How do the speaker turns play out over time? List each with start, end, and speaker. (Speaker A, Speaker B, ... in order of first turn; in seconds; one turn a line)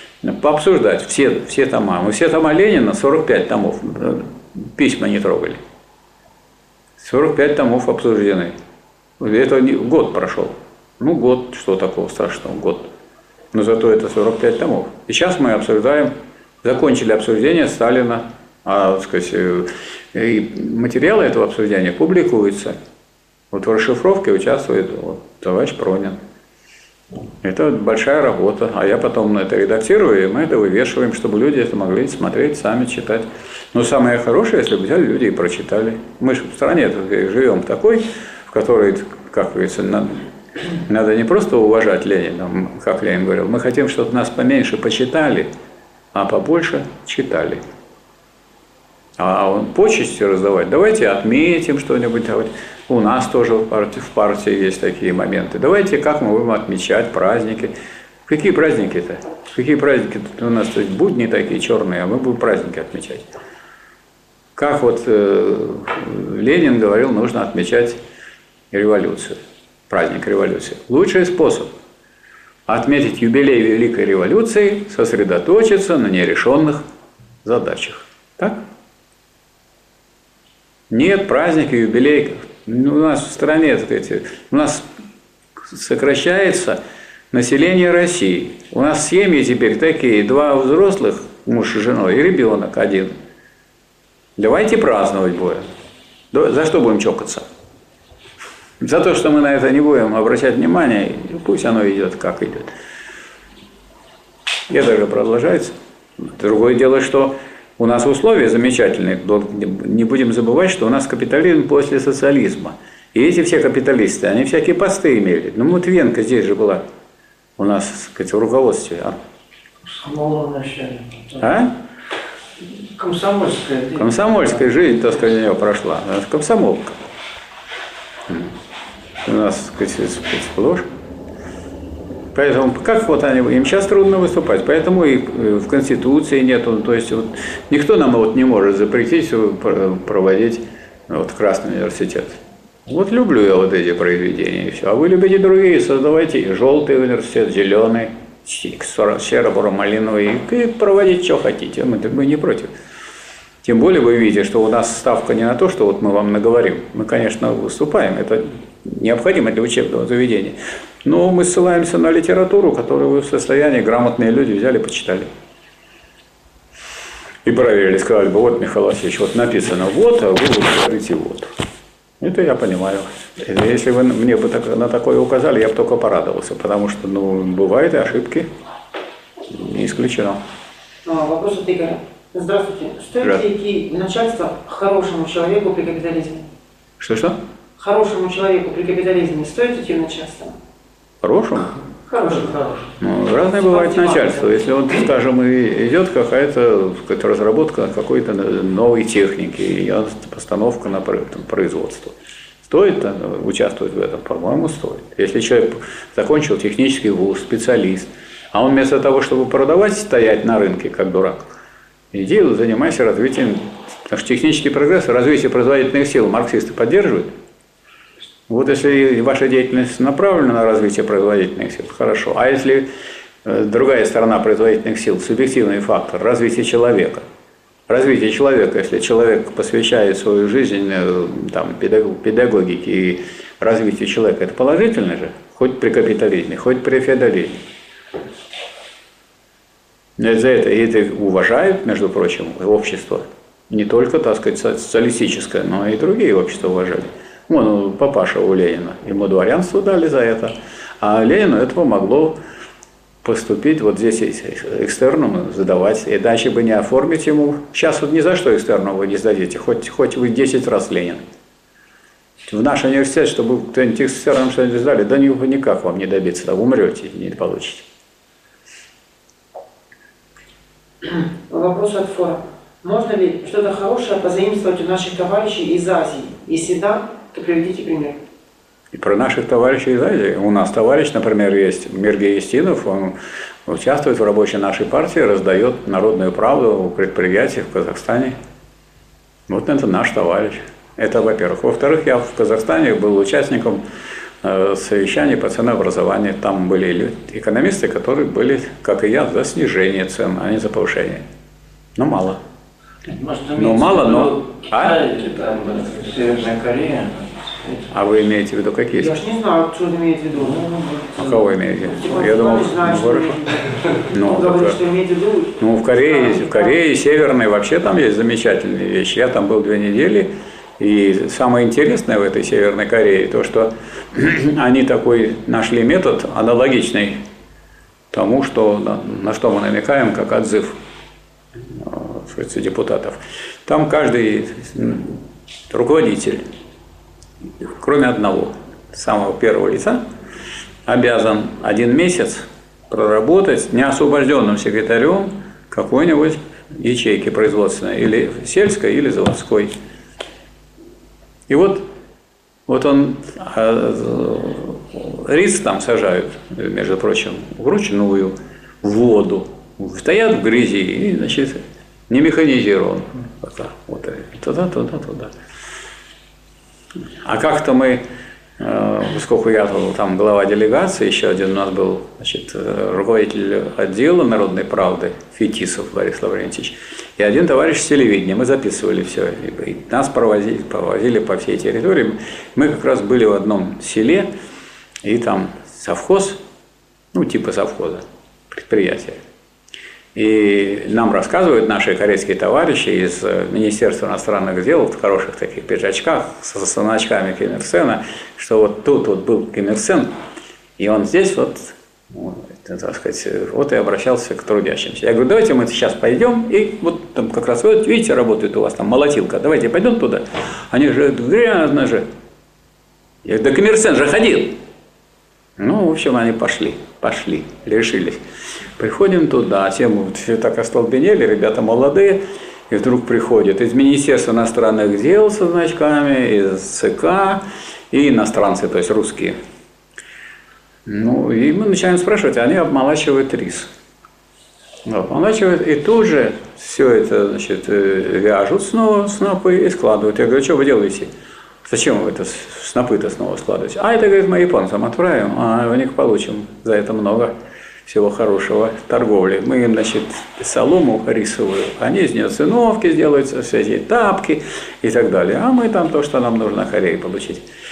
Speaker A: 0.2-5.6
Speaker A: 7.0-8.5
Speaker A: 9.2-12.9
Speaker A: 13.5-16.1
Speaker A: 16.6-22.8
Speaker A: 23.5-26.2
Speaker A: 27.4-40.2
Speaker A: 40.9-45.5
Speaker A: 46.1-47.6
Speaker A: 49.2-57.7
Speaker A: 58.3-63.3
Speaker A: 64.5-68.0
Speaker A: 68.7-71.7
Speaker A: 72.7-76.8
Speaker A: 77.4-78.6
Speaker A: 80.9-84.9
Speaker A: 85.6-86.8
Speaker A: 87.3-93.1
Speaker A: 94.4-95.7
Speaker A: 96.3-97.4
Speaker A: 98.8-102.7
Speaker A: 104.7-116.8
Speaker A: 117.6-119.2
Speaker A: 121.4-121.7
Speaker B: 123.4-123.8
Speaker A: 124.0-127.0
Speaker A: 128.3-128.5
Speaker A: 129.2-130.9
Speaker A: 132.3-152.7
Speaker A: 153.6-165.3
Speaker A: 167.4-171.5
Speaker A: 172.2-178.5
Speaker A: 179.5-180.4
Speaker C: 181.0-186.5
Speaker A: 187.0-187.4
Speaker C: 187.8-190.6
Speaker A: 191.2-191.8
Speaker C: 192.1-192.8
Speaker A: 193.0-211.5
Speaker C: 193.6-194.7
Speaker A: 212.1-217.3
Speaker A: 218.5-222.9
Speaker A: 223.4-227.2
Speaker A: 227.9-237.6
Speaker A: 240.2-252.4
Speaker A: 253.2-261.2
Speaker A: 262.5-267.9
Speaker C: 271.0-278.2
Speaker A: 278.9-283.1
Speaker A: 283.6-288.4
Speaker A: 289.5-293.8
Speaker A: 294.4-301.2
Speaker A: 302.0-302.4
Speaker B: 303.2-304.3
Speaker A: 303.5-305.0
Speaker B: 305.0-307.2
Speaker A: 307.9-309.2
Speaker C: 308.9-316.8
Speaker A: 311.2-313.4
Speaker A: 314.1-314.8
Speaker A: 315.6-327.2
Speaker A: 328.1-330.8
Speaker A: 331.6-336.4
Speaker A: 337.6-340.0
Speaker A: 340.9-349.7
Speaker A: 351.5-351.9
Speaker A: 352.7-365.3
Speaker A: 367.2-368.0
Speaker A: 368.6-384.3
Speaker A: 385.0-386.4
Speaker A: 387.1-389.2
Speaker A: 390.1-400.1
Speaker A: 400.8-412.1
Speaker A: 413.2-414.6
Speaker A: 415.6-418.2
Speaker A: 418.8-429.4
Speaker A: 430.9-433.7
Speaker A: 434.9-441.1
Speaker A: 441.6-447.3
Speaker A: 447.9-457.4